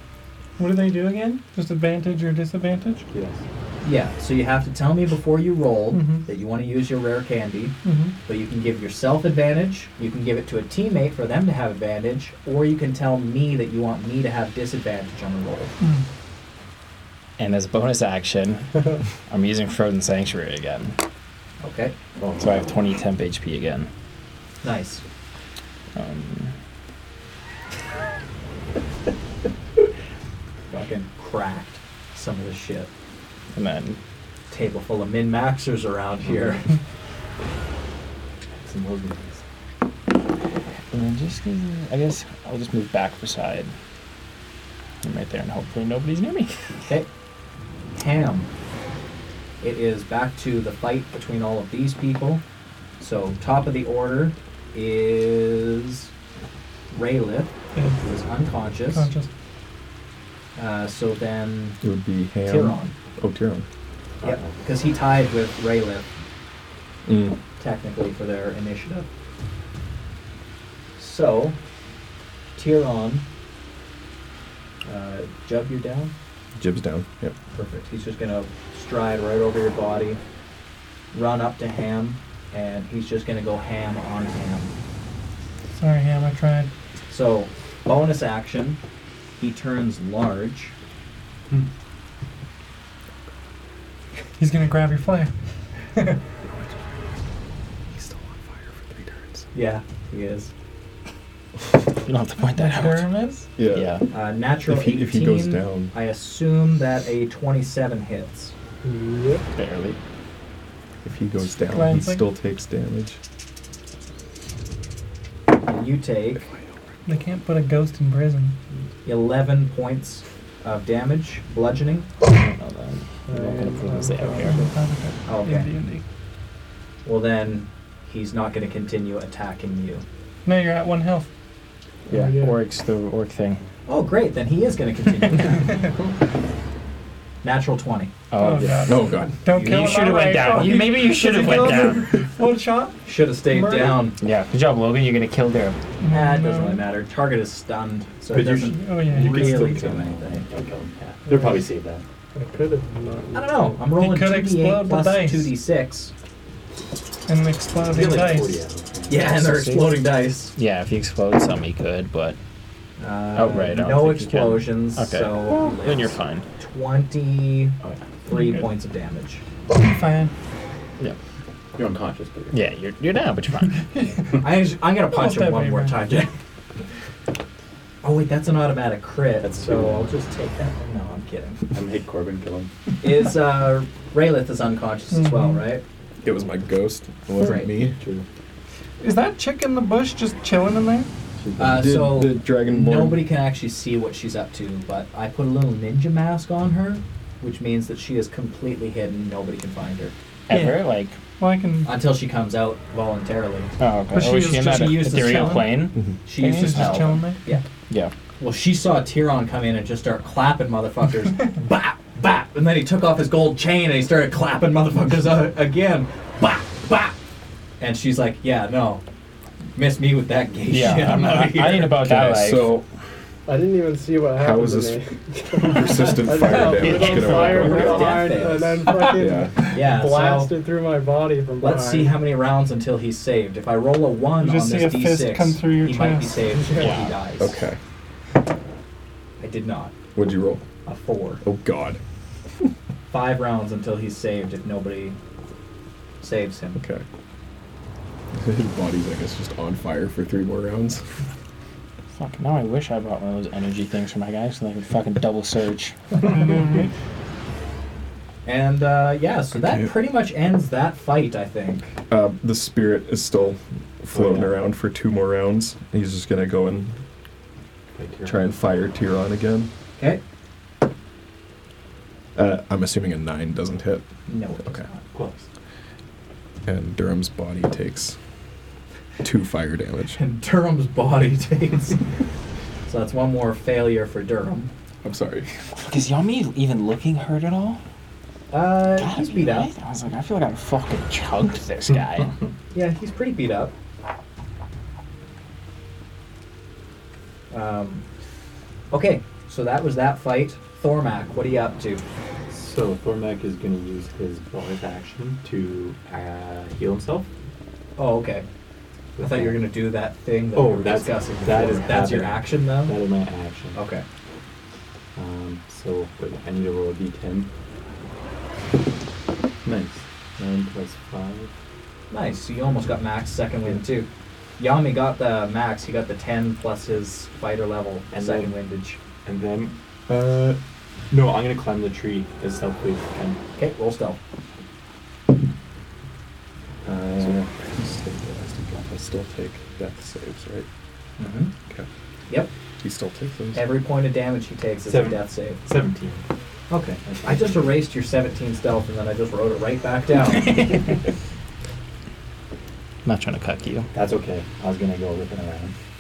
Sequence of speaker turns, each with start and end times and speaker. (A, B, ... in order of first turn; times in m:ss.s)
0:00.6-0:03.1 A
0:03.1-0:03.4 B
0:03.8-0:15.7 C
0:05.9-0:06.2 A
0:07.8-0:08.2 A
0:15.8-0:16.1 A
0:17.4-0:21.0 D
0:21.6-0:21.9 C
0:22.2-0:22.7 B
0:22.4-0:23.9 D
0:24.6-0:25.0 C
0:25.9-0:26.5 D
0:30.7-0:32.9 C
0:33.5-0:34.0 D
0:34.5-0:36.8 C
0:38.5-0:39.4 B
0:40.9-0:43.7 D
0:45.0-0:46.6 D
0:47.9-0:48.5 C
0:49.6-0:52.4 C
0:53.0-0:56.1 C
0:56.9-0:59.1 C
0:57.7-0:58.0 A
0:58.9-0:59.3 A
1:00.6-1:01.8 C
1:01.8-1:03.6 E
1:02.4-1:02.9 C
1:04.2-1:04.6 B
1:04.2-1:06.1 C
1:07.0-1:07.4 E
1:07.6-1:09.1 C
1:11.0-1:11.6 C
1:12.6-1:13.3 C
1:14.8-1:16.1 C
1:16.6-1:17.4 E
1:17.5-1:20.2 C
1:21.1-1:24.7 C
1:25.7-1:26.7 A
1:27.1-1:28.8 C
1:29.4-1:30.7 C
1:34.4-1:35.3 A
1:36.5-1:36.7 E
1:37.9-1:39.4 E
1:39.5-1:40.5 C
1:42.0-1:43.1 D
1:42.5-1:43.5 A
1:43.6-1:44.0 E
1:43.7-1:44.0 D
1:44.1-1:48.5 C
1:44.6-1:45.9 E
1:48.8-1:49.4 F
1:49.5-1:50.0 D
1:51.0-1:53.2 E
1:51.7-1:52.3 A
1:55.6-1:56.5 C
1:56.4-1:56.8 E
1:57.0-1:58.6 A
1:59.0-2:02.1 C
2:02.2-2:04.7 D
2:03.3-2:04.7 F
2:04.4-2:06.0 A
2:05.2-2:05.7 C
2:07.0-2:10.0 C
2:10.4-2:11.3 A
2:12.1-2:13.6 D
2:12.1-2:12.6 F
2:13.9-2:15.8 C
2:17.4-2:18.1 C
2:18.3-2:22.2 D
2:18.4-2:24.1 A
2:18.8-2:19.4 E
2:19.5-2:20.1 C
2:23.0-2:24.2 C
2:24.2-2:25.8 D
2:26.0-2:26.8 A
2:26.1-2:30.4 C
2:28.3-2:32.0 B
2:28.7-2:29.8 A
2:32.3-2:33.8 F
2:33.3-2:36.1 C
2:33.9-2:35.5 A
2:37.3-2:38.6 A
2:37.9-2:39.3 B
2:39.1-2:40.5 C
2:39.2-2:42.4 D
2:43.0-2:49.4 C
2:43.3-2:46.4 D
2:49.8-2:50.3 A
2:51.8-2:52.6 B
2:52.5-2:53.8 D
2:53.9-2:54.4 A
2:54.4-2:56.3 C
2:55.1-2:56.0 A
2:58.0-3:01.6 C
2:59.4-3:00.1 B
3:01.7-3:02.7 B
3:03.0-3:05.8 C
3:05.1-3:05.6 A
3:06.2-3:08.0 E
3:07.4-3:07.7 C
3:07.9-3:08.2 B
3:09.0-3:11.1 A
3:11.4-3:11.8 B
3:11.6-3:20.1 C
3:11.6-3:13.2 E
3:20.5-3:21.2 D
3:20.5-3:21.9 A
3:21.8-3:23.7 C
3:23.8-3:27.3 D
3:24.1-3:25.8 A
3:24.6-3:25.7 C
3:26.2-3:27.6 C
3:26.4-3:27.4 A
3:28.4-3:37.1 C
3:37.8-3:39.0 C
3:39.8-3:42.0 C
3:40.7-3:42.8 D
3:42.0-3:42.9 E
3:43.4-3:52.2 F
3:44.4-3:45.0 E
3:45.6-3:48.3 E
3:46.5-3:48.2 D
3:47.4-3:48.9 C
3:48.9-3:49.2 A
3:49.1-3:49.6 E
3:49.7-3:50.5 C
3:51.6-3:57.6 C
3:54.4-3:56.5 A
3:56.5-3:57.0 F
3:56.8-3:57.2 D
3:57.4-3:57.8 E
3:59.4-3:59.9 C
4:00.1-4:00.6 E
4:00.8-4:01.4 C
4:01.4-4:02.0 E
4:03.1-4:05.2 C
4:06.2-4:06.8 C
4:06.8-4:07.0 E
4:08.3-4:11.2 E
4:12.1-4:16.2 D
4:16.2-4:16.9 A
4:18.4-4:22.0 C
4:19.6-4:19.9 E
4:22.1-4:27.0 E
4:24.1-4:24.6 B
4:27.9-4:28.4 B
4:28.2-4:29.7 E
4:32.3-4:34.1 E
4:34.3-4:35.0 C
4:35.1-4:35.5 B
4:36.6-4:38.2 E
4:39.2-4:40.2 E
4:40.2-4:42.0 C
4:42.9-4:44.7 C
4:45.0-4:45.6 E
4:45.8-4:47.8 D
4:48.5-4:49.7 C
4:49.0-4:52.4 D
4:52.7-4:53.7 C
4:57.5-4:58.0 C
4:58.9-5:02.0 C
5:02.5-5:07.3 B
5:08.0-5:08.4 C
5:09.2-5:09.6 B
5:09.2-5:13.0 C
5:10.5-5:13.8 B
5:13.7-5:14.0 C
5:15.1-5:17.5 B
5:19.6-5:21.5 B
5:22.1-5:29.0 C
5:28.1-5:28.5 B
5:29.2-5:30.6 B
5:31.1-5:33.4 B
5:33.6-5:34.2 C
5:36.8-5:37.5 B
5:37.2-5:40.7 E
5:41.2-5:41.5 C
5:42.8-5:43.6 E
5:43.5-5:45.6 C
5:44.8-5:46.2 B
5:46.7-5:50.6 C
5:47.0-5:47.8 B
5:50.3-5:51.0 D
5:53.0-5:53.9 D
5:53.9-5:55.7 B